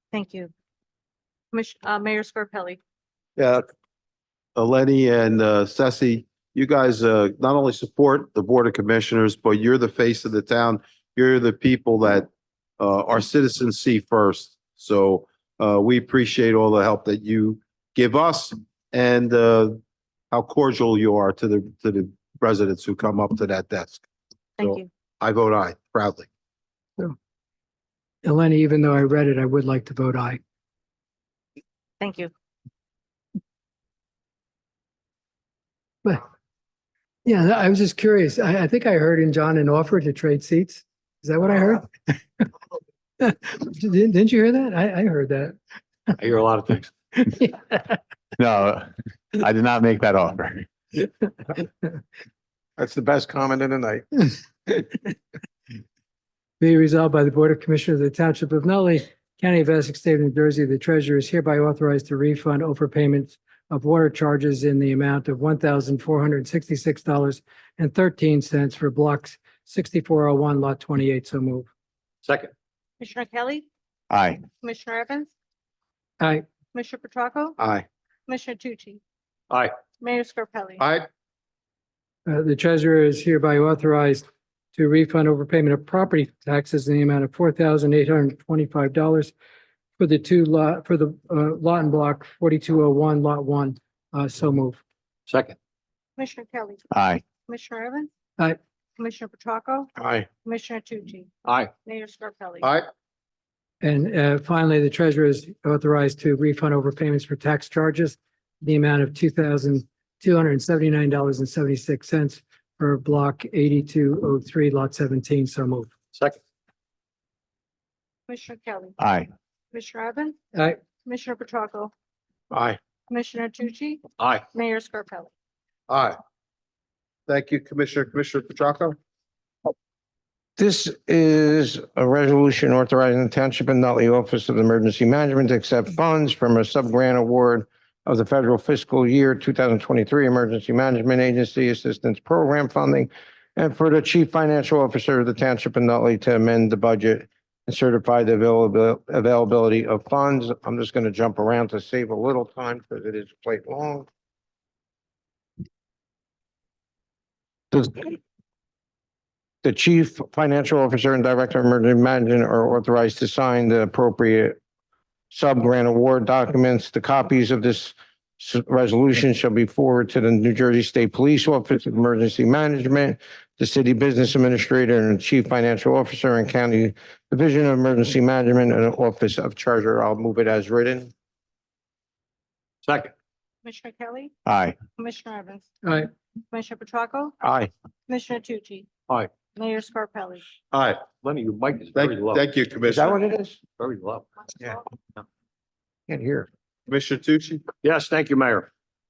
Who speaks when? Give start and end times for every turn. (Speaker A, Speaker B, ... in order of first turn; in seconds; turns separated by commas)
Speaker A: 0.1-0.5, Speaker A: 1.5-2.8, Speaker B: 3.4-3.6, Speaker B: 4.5-24.0, Speaker A: 24.6-24.9, Speaker B: 24.6-26.3, Speaker C: 28.2-30.4, Speaker A: 32.0-32.3, Speaker C: 37.2-42.4, Speaker C: 43.2-45.5, Speaker D: 46.2-46.9, Speaker C: 47.2-47.7, Speaker E: 48.4-50.7, Speaker F: 52.8-54.1, Speaker C: 56.6-71.7, Speaker D: 72.2-72.5, Speaker A: 73.0-73.7, Speaker E: 74.1-74.4, Speaker A: 74.6-75.3, Speaker A: 76.7-77.6, Speaker B: 77.6-77.8, Speaker A: 78.3-79.0, Speaker A: 80.0-80.8, Speaker B: 80.8-81.0, Speaker C: 82.2-84.2, Speaker C: 84.7-89.3, Speaker C: 90.0-94.8, Speaker D: 95.3-95.5, Speaker A: 96.2-96.8, Speaker E: 96.9-97.2, Speaker A: 97.4-98.1, Speaker A: 99.0-99.9, Speaker F: 100.0-100.3, Speaker A: 100.4-101.3, Speaker D: 101.4-101.7, Speaker A: 101.8-102.7, Speaker B: 102.6-102.9, Speaker C: 103.8-115.9, Speaker A: 118.3-119.0, Speaker E: 119.0-119.3, Speaker A: 119.7-120.4, Speaker A: 121.0-121.9, Speaker F: 122.5-122.8, Speaker A: 123.1-125.3, Speaker D: 124.2-124.4, Speaker B: 125.9-126.2, Speaker B: 127.3-129.0, Speaker F: 130.6-154.1, Speaker F: 157.7-158.2, Speaker F: 159.6-164.6, Speaker F: 165.3-181.1, Speaker D: 182.8-183.1, Speaker A: 183.6-184.3, Speaker E: 184.4-184.7, Speaker A: 185.0-185.7, Speaker A: 186.5-187.3, Speaker F: 187.4-187.7, Speaker A: 188.1-188.9, Speaker A: 189.5-190.4, Speaker B: 190.7-191.0, Speaker D: 191.2-192.4, Speaker B: 191.9-193.1, Speaker F: 192.9-193.6, Speaker D: 193.8-194.3, Speaker F: 196.1-196.5, Speaker B: 196.9-197.6, Speaker D: 197.8-198.7